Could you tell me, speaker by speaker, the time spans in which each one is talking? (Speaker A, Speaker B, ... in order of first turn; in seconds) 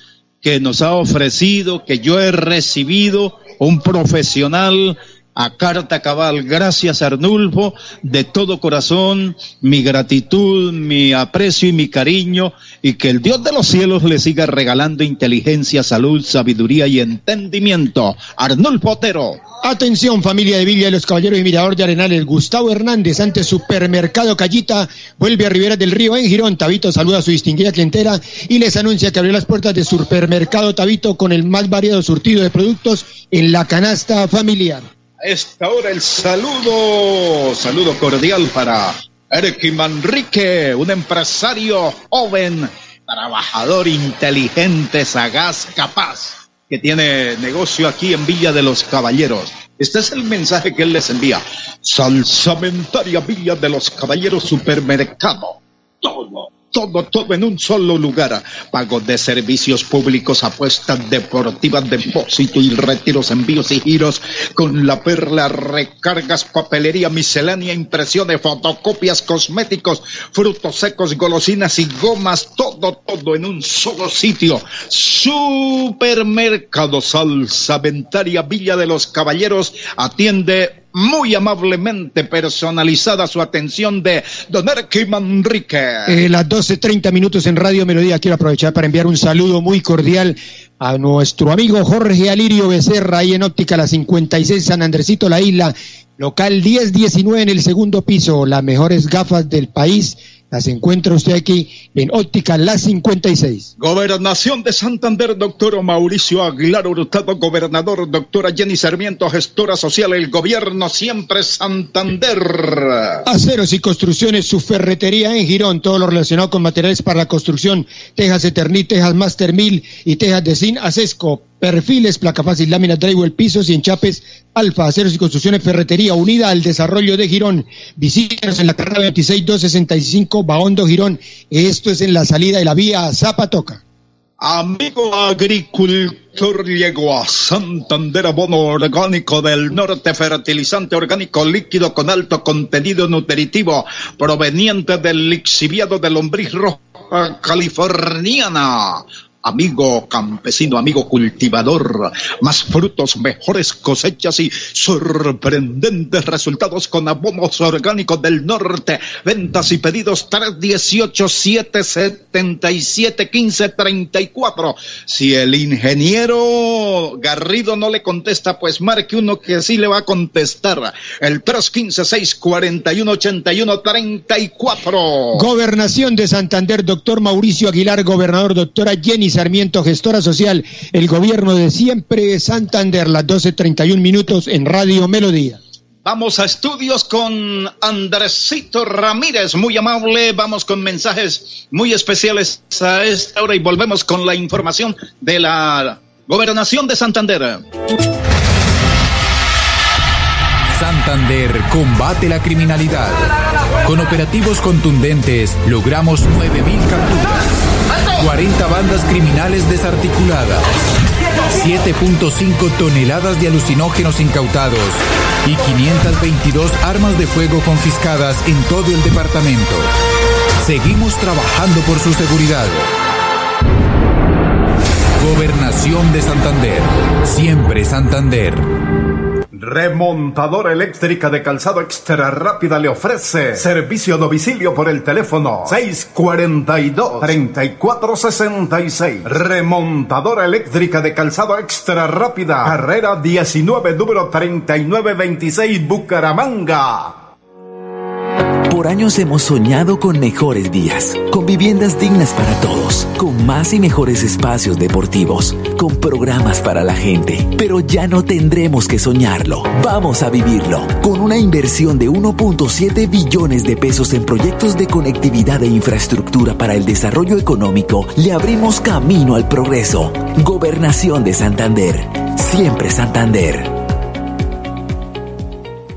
Speaker A: 0.4-19.4, 35.2-86.2, 103.8-113.2, 134.4-175.4, 186.0-197.6
Speaker B: 19.6-34.8, 86.1-103.7, 113.2-133.8, 175.3-185.6
Speaker C: 200.7-203.3, 203.8-207.4, 208.1-210.7, 211.4-219.9, 220.6-222.9, 225.2-228.7
Speaker D: 229.5-247.2
Speaker E: 248.7-273.7